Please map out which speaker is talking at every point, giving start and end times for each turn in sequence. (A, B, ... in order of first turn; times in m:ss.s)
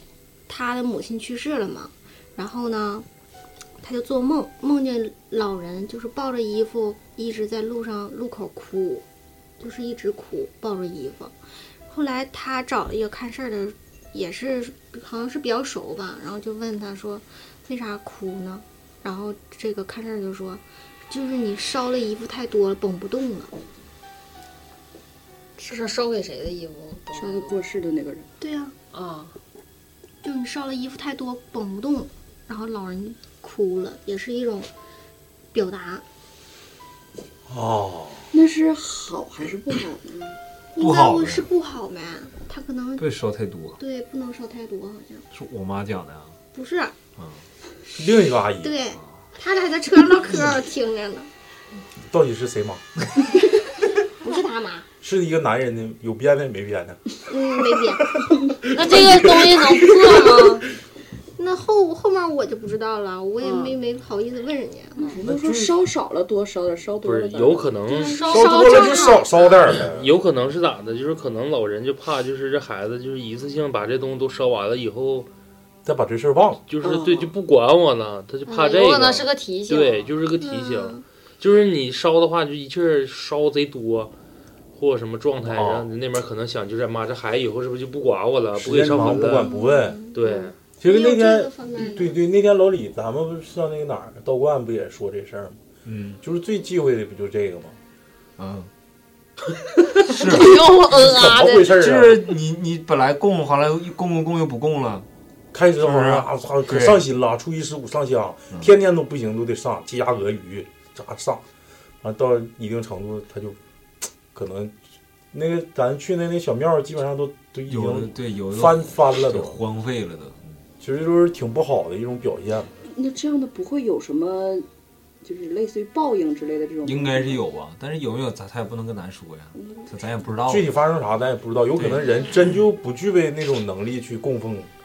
0:00.5-0:03.0 A
0:03.8-0:09.0 A
0:09.6-0:11.3 A
0:11.9-0:23.5 A
0:25.6-0:27.6 B
0:27.1-0:28.3 C
0:28.4-0:28.7 A
0:28.9-0:29.3 B
0:30.2-0:34.7 A
0:35.5-0:36.0 A
0:37.5-0:38.2 D
0:38.3-0:40.4 C
0:40.7-0:43.1 A
0:40.8-0:41.5 E
0:43.0-0:43.8 E
0:43.8-0:45.2 A
0:45.3-0:46.3 E
0:46.5-0:46.9 A
0:47.2-0:47.4 E
0:48.0-0:48.7 D
0:48.6-0:51.3 A
0:52.1-0:52.8 D
0:54.2-0:54.8 A
0:55.0-0:57.0 D
0:57.3-0:58.3 A
0:57.9-0:59.8 D
0:58.7-1:00.6 B
0:59.8-1:00.6 A
1:01.4-1:05.2 A
1:03.4-1:03.8 B
1:05.0-1:07.8 C
1:05.2-1:05.8 D
1:07.0-1:08.4 F
1:07.9-1:09.7 A
1:08.0-1:09.0 B
1:08.2-1:10.1 D
1:09.8-1:15.3 F
1:15.8-1:16.6 D
1:16.7-1:24.1 F
1:16.8-1:17.1 B
1:16.9-1:17.3 C
1:18.5-1:20.1 B
1:20.4-1:21.0 A
1:24.8-1:29.5 F
1:25.4-1:25.9 D
1:28.6-1:30.1 D
1:29.2-1:32.2 A
1:30.1-1:30.5 F
1:30.8-1:35.6 D
1:35.8-1:36.2 E
1:36.2-1:37.8 D
1:38.4-1:38.7 E
1:39.9-1:41.8 B
1:40.1-1:40.5 E
1:40.9-1:42.2 D
1:41.8-1:45.0 E
1:45.5-1:51.4 D
1:45.8-1:47.0 E
1:52.0-1:53.6 D
1:54.3-1:54.7 D
1:55.3-1:59.6 D
1:57.7-2:00.6 E
2:00.8-2:02.7 D
2:02.9-2:04.7 C
2:05.2-2:07.4 C
2:06.8-2:10.7 E
2:09.6-2:09.8 C
2:10.5-2:14.7 D
2:11.8-2:12.6 E